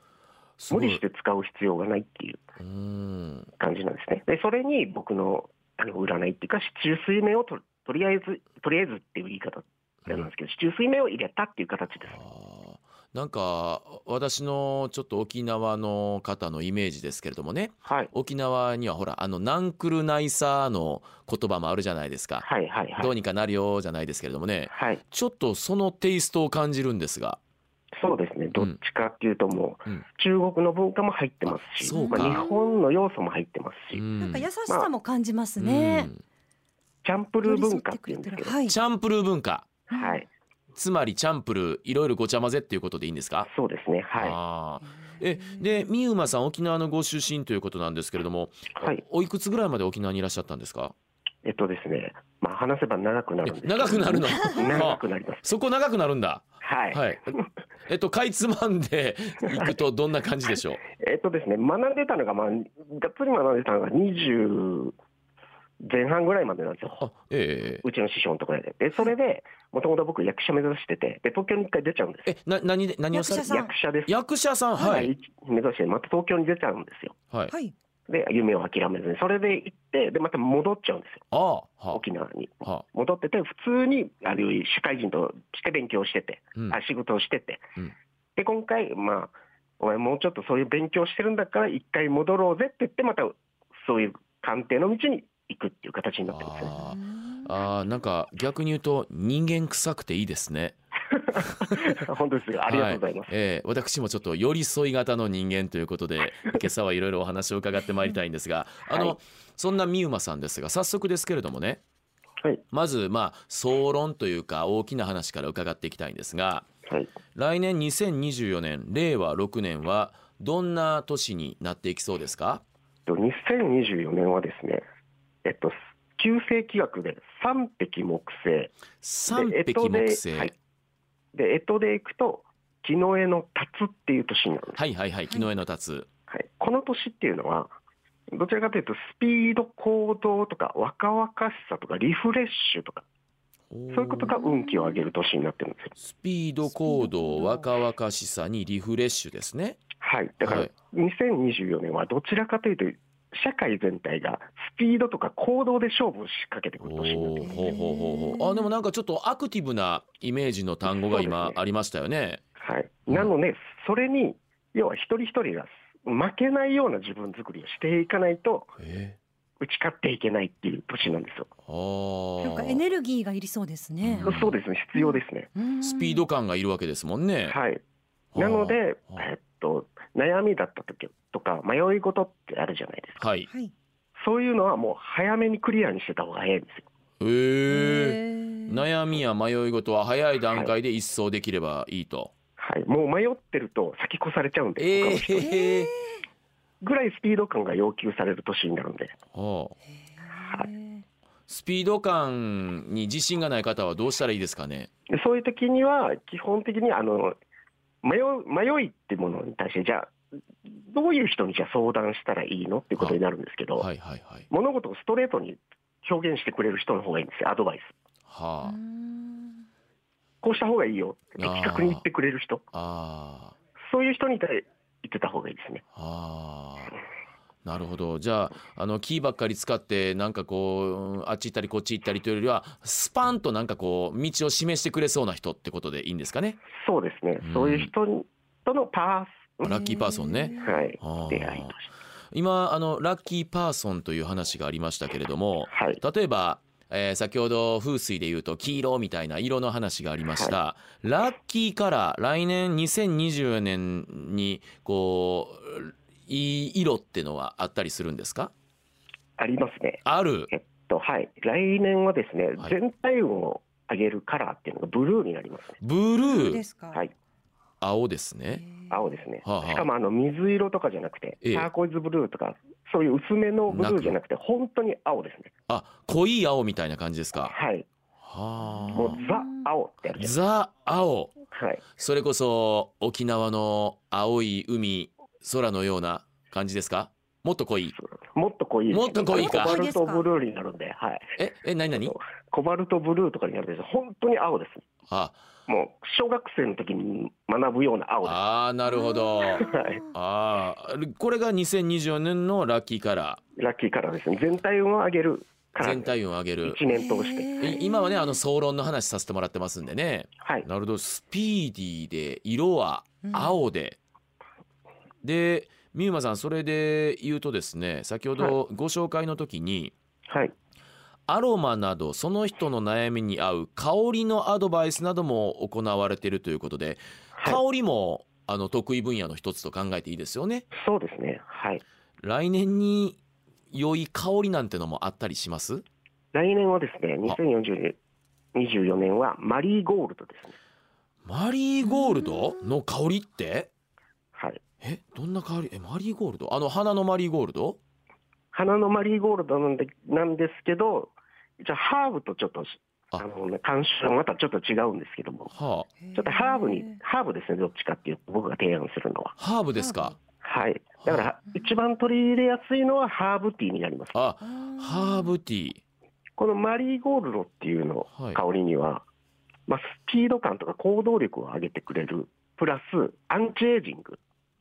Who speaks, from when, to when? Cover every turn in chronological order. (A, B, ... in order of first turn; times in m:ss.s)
0:00.6-0:01.0 A
0:00.7-0:02.4 B
0:02.6-0:03.5 A
0:03.6-0:12.2 B
0:12.1-0:27.4 A
0:17.9-0:18.1 B
0:22.4-0:23.1 B
0:24.7-0:25.0 B
0:28.0-0:34.0 B
0:31.7-0:32.4 A
0:31.8-0:32.8 C
0:33.9-0:34.5 A
0:34.2-0:36.1 C
0:35.6-0:36.2 A
0:37.0-0:38.6 B
0:37.4-0:38.8 C
0:38.7-0:39.7 A
0:39.9-0:40.3 B
0:39.9-0:40.2 C
0:40.7-0:43.5 A
0:43.5-0:44.4 B
0:44.2-0:50.9 A
0:45.1-0:45.7 C
0:48.8-0:49.0 B
0:51.4-0:55.5 B
0:53.5-1:00.8 A
0:56.6-0:57.5 B
1:00.9-1:05.0 B
1:05.8-1:07.0 B
1:07.0-1:07.8 A
1:07.8-1:12.3 B
1:12.3-1:15.1 A
1:13.1-1:13.7 C
1:13.5-1:14.1 B
1:14.8-1:17.2 B
1:18.1-1:21.2 B
1:21.3-1:22.0 A
1:21.9-1:27.6 B
1:28.4-1:36.8 B
1:36.3-1:40.8 A
1:36.7-1:37.8 C
1:41.1-1:43.3 B
1:41.4-1:41.8 A
1:42.7-1:51.8 A
1:48.9-1:49.2 B
1:52.7-1:56.7 A
1:56.9-1:57.1 B
1:57.4-2:02.6 A
2:03.1-2:04.8 B
2:05.4-2:08.7 B
2:09.0-2:10.5 A
2:09.3-2:10.6 B
2:11.3-2:14.8 B
2:14.8-2:16.1 A
2:16.3-2:17.7 B
2:18.3-2:23.0 B
2:23.7-2:24.3 A
2:23.9-2:25.9 B
2:24.4-2:25.0 C
2:26.0-2:29.8 A
2:26.7-2:27.7 C
2:30.0-2:37.6 B
2:30.4-2:30.7 A
2:36.8-2:42.4 A
2:37.5-2:38.7 C
2:40.9-2:41.6 B
2:42.6-2:48.7 B
2:48.8-2:49.2 A
2:49.6-2:51.5 B
2:51.7-2:52.8 A
2:52.4-2:56.2 C
2:54.0-2:54.5 A
2:54.2-2:55.5 B
2:55.8-2:57.6 A
2:57.5-2:57.8 B
2:58.3-2:59.2 A
2:58.4-3:03.2 B
3:03.2-3:03.5 A
3:04.2-3:06.9 B
3:07.2-3:12.3 A
3:07.7-3:08.8 C
3:12.6-3:15.5 B
3:14.8-3:15.9 A
3:15.4-3:16.2 C
3:16.8-3:19.2 B
3:19.3-3:19.8 A
3:20.2-3:21.0 C
3:20.4-3:20.7 B
3:21.5-3:24.9 A
3:25.1-3:27.4 B
3:28.0-3:33.9 B
3:33.8-3:34.5 A
3:34.5-3:38.0 B
3:38.3-3:38.8 A
3:38.6-3:39.6 C
3:40.4-3:42.6 B
3:41.4-3:42.0 A
3:42.7-3:43.6 A
3:43.8-3:45.8 B
3:46.0-3:46.9 A
3:47.6-3:56.6 A
3:56.8-3:59.8 B
3:57.4-3:57.9 A
3:59.6-4:01.8 A
3:59.7-4:00.8 C
4:00.6-4:01.9 B
4:02.3-4:18.5 A
4:05.7-4:06.0 B
4:19.4-4:25.8 B
4:20.1-4:20.5 A
4:25.8-4:26.6 A
4:26.2-4:27.0 C
4:27.8-4:28.6 A
4:28.6-4:29.0 C
4:28.9-4:35.5 B
4:29.4-4:29.9 A
4:31.4-4:31.7 A
4:33.7-4:34.2 A
4:35.7-4:37.5 A
4:37.4-4:37.9 B
4:38.2-4:39.2 A
4:38.8-4:39.6 C
4:38.9-4:40.3 B
4:40.2-4:41.4 A
4:41.5-4:41.8 B
4:41.9-4:48.0 A
4:47.9-4:51.4 B
4:48.9-4:49.8 A
4:49.3-4:50.2 C
4:51.4-4:52.2 A
4:52.0-4:54.9 B
4:55.1-4:55.4 A
4:55.7-4:58.4 B
4:58.2-5:03.4 A
4:58.9-5:00.1 C
4:59.6-5:00.0 B
5:03.6-5:06.1 B
5:05.8-5:06.8 A
5:06.6-5:07.8 B
5:06.9-5:08.4 C
5:07.6-5:14.0 A
5:10.4-5:10.7 B
5:13.2-5:13.6 C
5:15.2-5:19.9 A
5:20.3-5:20.5 B
5:21.3-5:30.6 A
5:30.7-5:31.8 B
5:32.2-5:33.2 A
5:33.7-5:35.8 A
5:36.3-5:38.0 B
5:38.6-5:40.6 B
5:41.2-5:43.7 A
5:44.4-5:44.6 B
5:44.8-5:47.8 A
5:48.5-5:55.5 B
5:55.5-5:55.9 A
5:56.0-5:57.0 C
5:56.1-5:59.4 B
5:59.4-6:00.2 A
5:59.8-6:00.2 C
6:00.4-6:04.2 B
6:04.1-6:05.8 A
6:04.4-6:05.3 C
6:06.4-6:09.1 B
6:08.1-6:08.4 A
6:09.7-6:14.2 B